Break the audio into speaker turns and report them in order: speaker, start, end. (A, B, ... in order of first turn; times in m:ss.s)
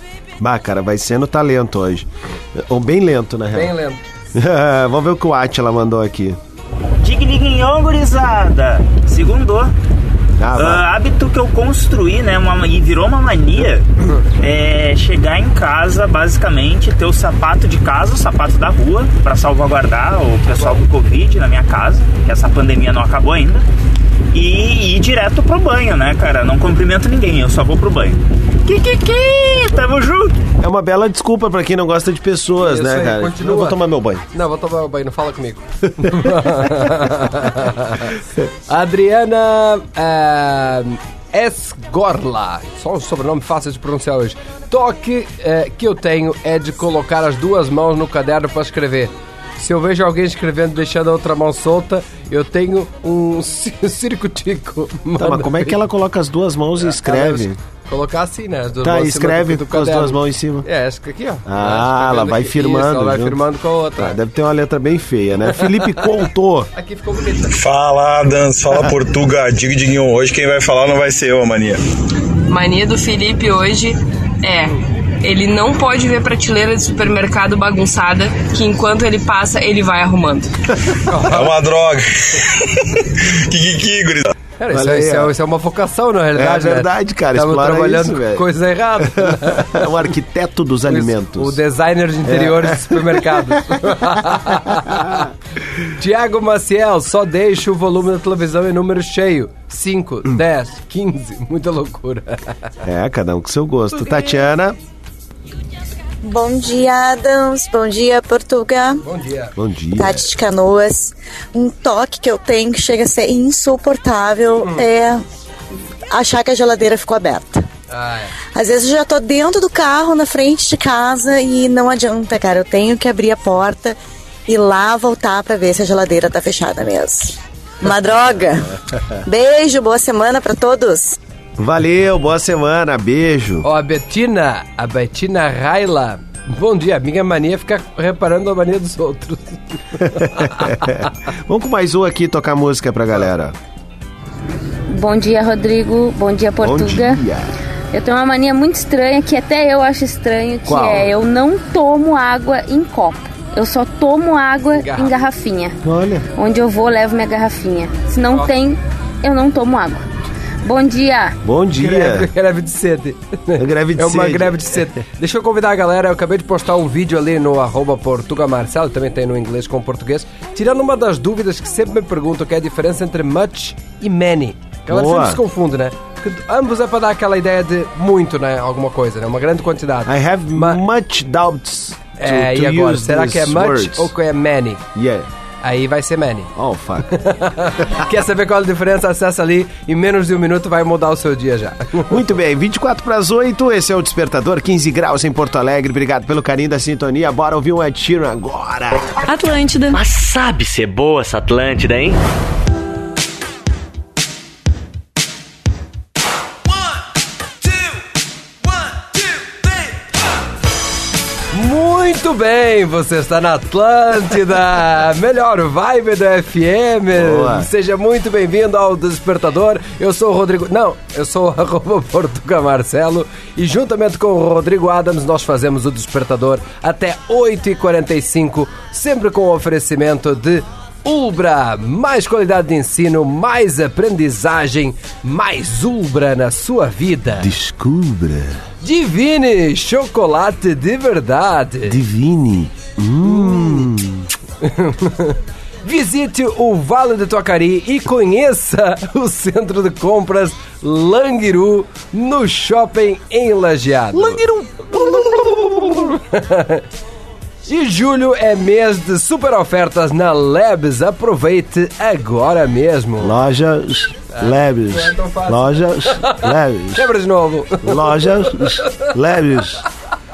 0:00.4-0:03.7 A
0:03.5-0:04.0 B
0:04.4-0:06.4 A
0:07.0-0:09.7 C
0:10.4-0:10.9 A
0:10.6-0:13.9 C
0:14.4-0:23.6 C
0:24.3-0:30.4 C
0:30.6-0:34.2 A
0:32.6-0:33.8 B
0:34.3-0:38.2 B
0:38.7-0:55.8 B
0:55.2-0:57.6 A
0:56.8-1:04.2 B
0:58.8-1:00.7 A
1:01.5-1:03.4 A
1:04.0-1:06.7 A
1:06.8-1:07.6 B
1:07.5-1:11.8 D
1:12.5-1:20.5 E
1:21.1-1:21.5 B
1:21.3-1:24.3 D
1:24.6-1:29.8 B
1:24.7-1:25.3 A
1:26.4-1:28.4 A
1:29.0-1:31.6 A
1:30.9-1:35.3 B
1:32.2-1:33.4 A
1:36.0-1:42.6 B
1:42.8-1:44.8 A
1:43.9-1:44.5 B
1:46.2-1:49.0 F
1:49.0-1:49.5 B
1:49.6-1:50.3 A
1:50.0-1:55.2 F
1:56.1-1:57.6 F
1:57.9-1:58.3 B
1:58.6-2:04.0 F
2:04.5-2:08.7 F
2:09.3-2:11.2 F
2:11.6-2:13.6 A
2:13.6-2:21.0 B
2:20.2-2:23.5 A
2:24.9-2:27.2 G
2:26.6-2:27.5 A
2:27.9-2:35.8 G
2:30.7-2:31.1 B
2:34.7-2:35.2 B
2:35.8-2:36.3 A
2:36.4-2:40.0 G
2:38.3-2:38.5 B
2:40.6-2:41.4 G
2:41.4-2:42.3 A
2:41.8-3:00.8 B
2:43.6-2:44.7 A
2:54.9-2:55.4 A
3:00.1-3:04.1 A
3:02.2-3:04.8 B
3:05.0-3:05.3 A
3:05.6-3:06.5 B
3:06.6-3:07.1 A
3:07.1-3:12.2 B
3:12.1-3:19.1 A
3:19.9-3:22.2 H
3:31.5-3:57.5 B
3:37.1-3:37.7 A
3:57.4-3:58.6 A
3:58.8-4:02.0 B
4:01.9-4:04.3 A
4:03.3-4:03.8 B
4:04.6-4:16.8 B
4:14.1-4:15.2 A
4:17.7-4:23.3 B
4:23.2-4:27.1 A
4:24.3-4:29.0 B
4:27.8-4:29.8 A